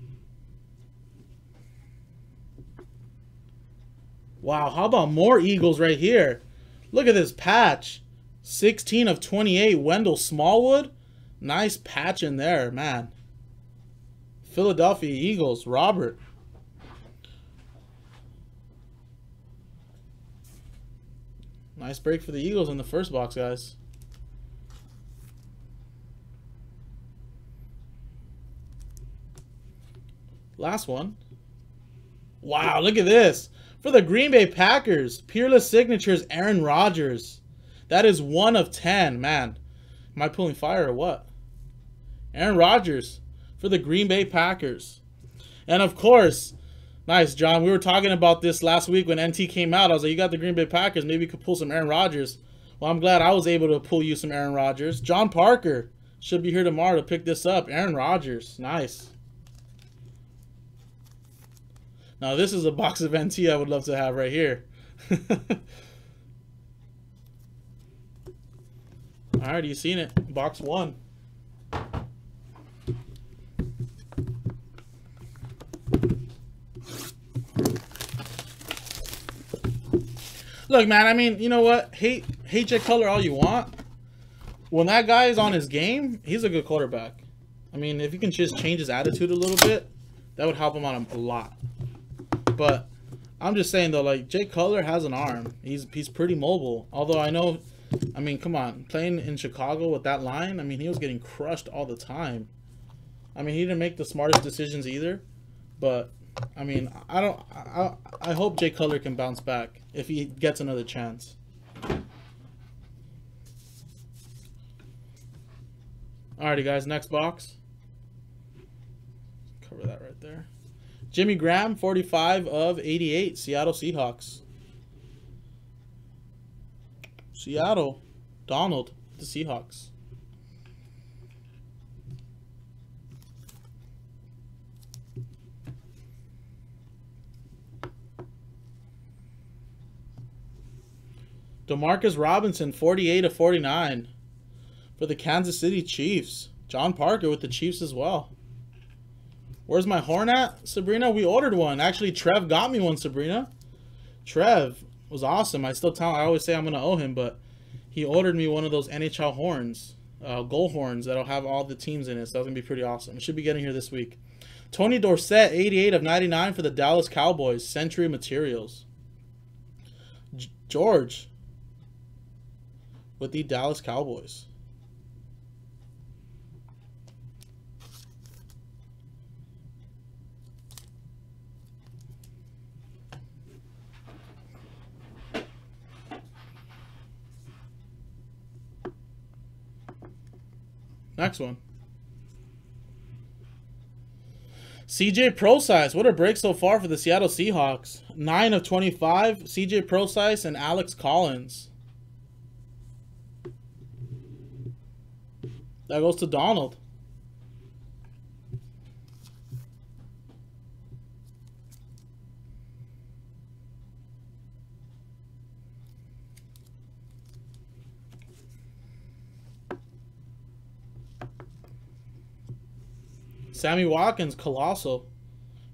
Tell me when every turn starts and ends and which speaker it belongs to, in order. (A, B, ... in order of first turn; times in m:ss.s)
0:04.4-0:13.1 A
0:14.4-0:16.2 A
0:21.8-0:23.8 A
0:30.6-0:31.2 A
0:32.4-0:39.6 A
0:40.1-0:41.3 A
0:42.3-0:45.0 A
0:45.7-0:46.5 A
0:47.0-0:59.1 A
1:02.2-1:05.6 A
1:09.4-1:11.0 A
1:20.7-1:23.7 A
1:24.7-1:27.2 A
1:27.7-1:31.6 A
1:32.5-1:37.6 A
1:38.1-1:42.5 A
1:43.3-1:45.2 A
1:45.8-1:51.4 A
1:56.4-1:57.6 A
1:59.6-2:00.5 A
2:01.1-2:04.4 A
2:07.3-2:09.9 A
2:21.7-2:24.1 A
2:25.0-2:28.3 A
2:29.7-2:33.5 A
2:34.2-2:44.2 A
2:44.7-2:48.8 A
2:50.3-2:51.3 A
2:53.2-2:54.5 A
3:11.2-3:11.6 A
3:14.9-3:21.7 A
3:25.9-3:26.8 A
3:43.5-3:45.1 A